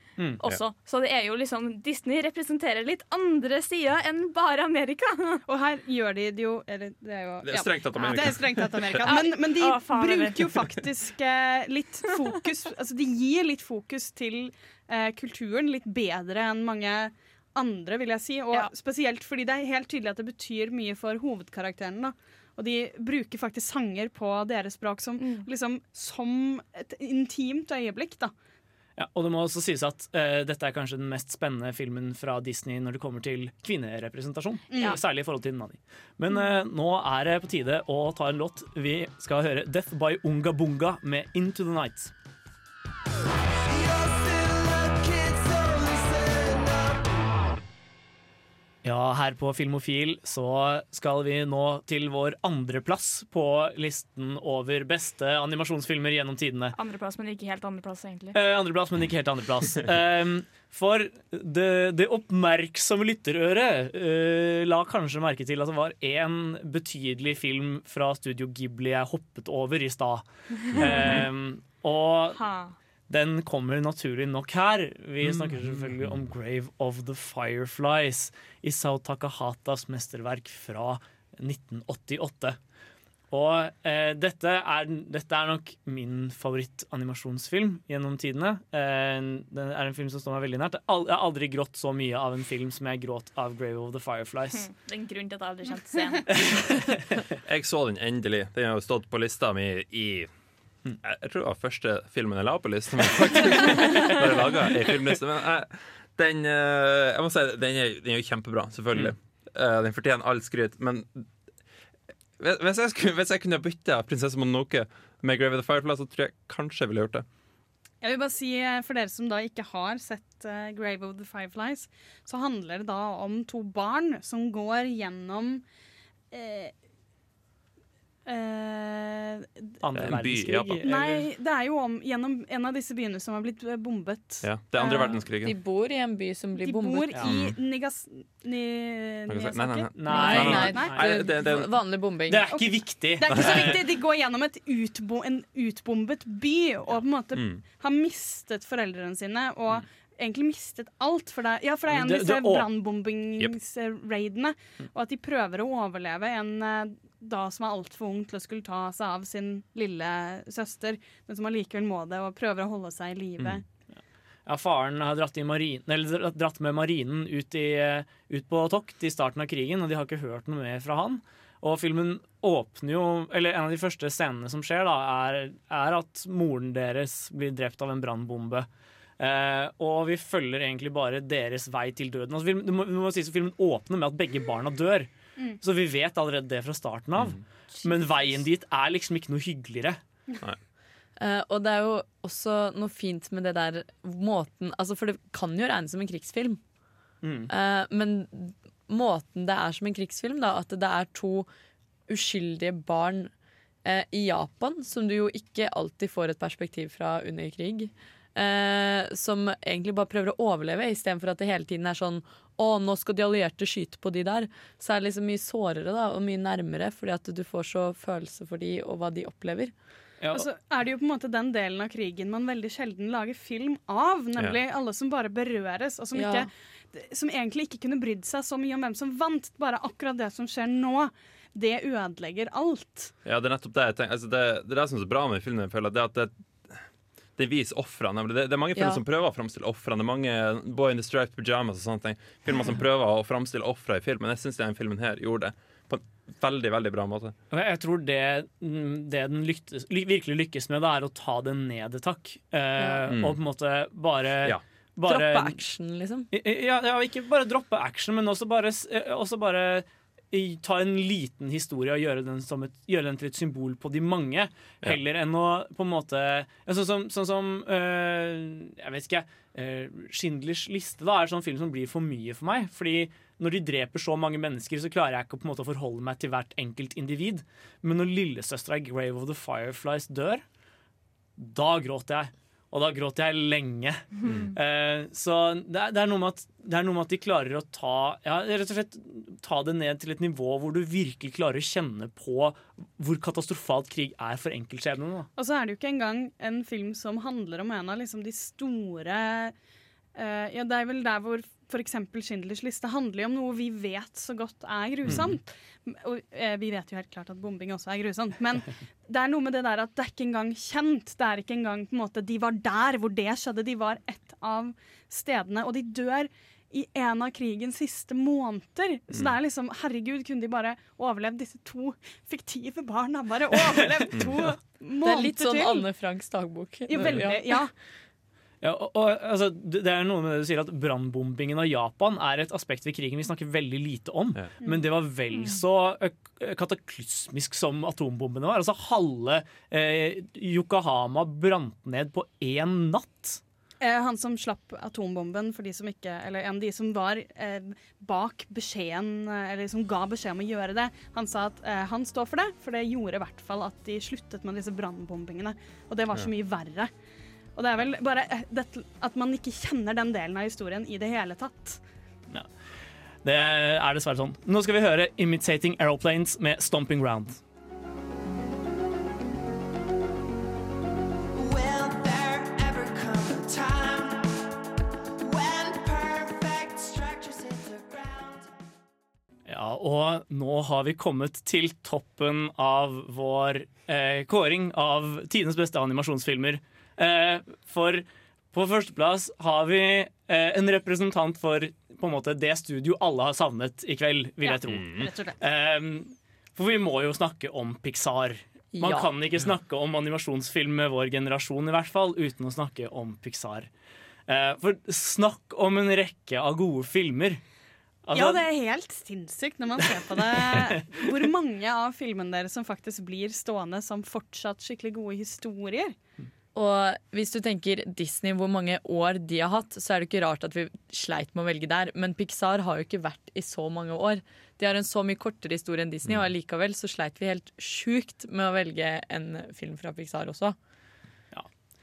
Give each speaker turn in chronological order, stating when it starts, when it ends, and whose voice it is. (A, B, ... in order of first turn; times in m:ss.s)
0:00.4-0:05.4 A
0:05.5-0:28.3 B
0:07.4-0:09.1 C
0:09.0-0:10.5 A
0:25.2-0:25.5 A
0:29.0-0:42.1 D
0:34.7-0:35.0 B
0:43.6-0:47.1 E
0:48.8-0:56.8 D
0:56.7-0:58.4 A
0:58.3-1:12.4 D
1:10.7-1:11.2 A
1:10.7-1:11.2 C
1:12.4-1:12.7 A
1:13.1-1:22.6 D
1:15.2-1:16.2 C
1:23.3-1:34.7 D
1:34.5-1:36.5 A
1:36.3-1:37.0 D
1:37.4-1:40.3 C
1:41.0-1:51.3 C
1:52.4-1:57.2 C
1:58.0-2:05.6 B
2:06.3-2:06.7 B
2:08.2-2:09.8 B
2:09.8-2:11.3 D
2:09.9-2:10.9 C
2:10.8-2:15.2 B
2:14.4-2:15.6 C
2:15.4-2:17.1 F
2:16.6-2:21.1 B
2:17.2-2:17.6 C
2:19.3-2:21.8 C
2:19.9-2:21.1 D
2:20.1-2:22.6 F
2:22.3-2:23.7 D
2:22.5-2:43.6 B
2:23.3-2:23.8 C
2:27.4-2:27.6 C
2:31.9-2:32.7 D
2:44.4-2:58.7 D
2:59.2-3:05.1 D
3:05.6-3:10.0 D
3:11.2-3:16.6 F
3:17.2-3:17.5 D
3:17.5-3:21.5 F
3:22.1-3:23.3 F
3:23.8-3:39.7 F
3:40.2-3:40.5 D
3:40.3-3:53.1 B
3:46.1-3:46.5 F
3:53.2-3:56.8 C
3:57.4-4:07.3 C
3:58.8-3:59.0 F
4:07.5-4:15.6 D
4:12.8-4:13.0 F
4:13.1-4:13.4 C
4:15.0-4:16.3 F
4:16.3-4:40.4 D
4:41.4-4:55.3 D
4:44.2-4:44.5 A
4:44.2-4:44.5 C
4:55.4-4:59.5 B
5:00.1-5:25.8 B
5:05.0-5:05.3 C
5:25.0-5:27.7 F
5:26.9-5:27.7 B
5:28.6-5:43.4 D
5:43.8-5:56.9 B
5:57.6-6:01.8 B
6:03.2-6:07.4 D
6:11.3-6:14.5 E
6:15.2-6:18.5 E
6:19.5-6:43.7 D
6:34.4-6:35.4 B
6:38.7-6:39.1 F
6:44.3-6:47.4 D
6:48.0-6:48.4 D
6:48.1-6:56.0 B
6:50.4-6:50.7 D
6:56.5-7:10.6 F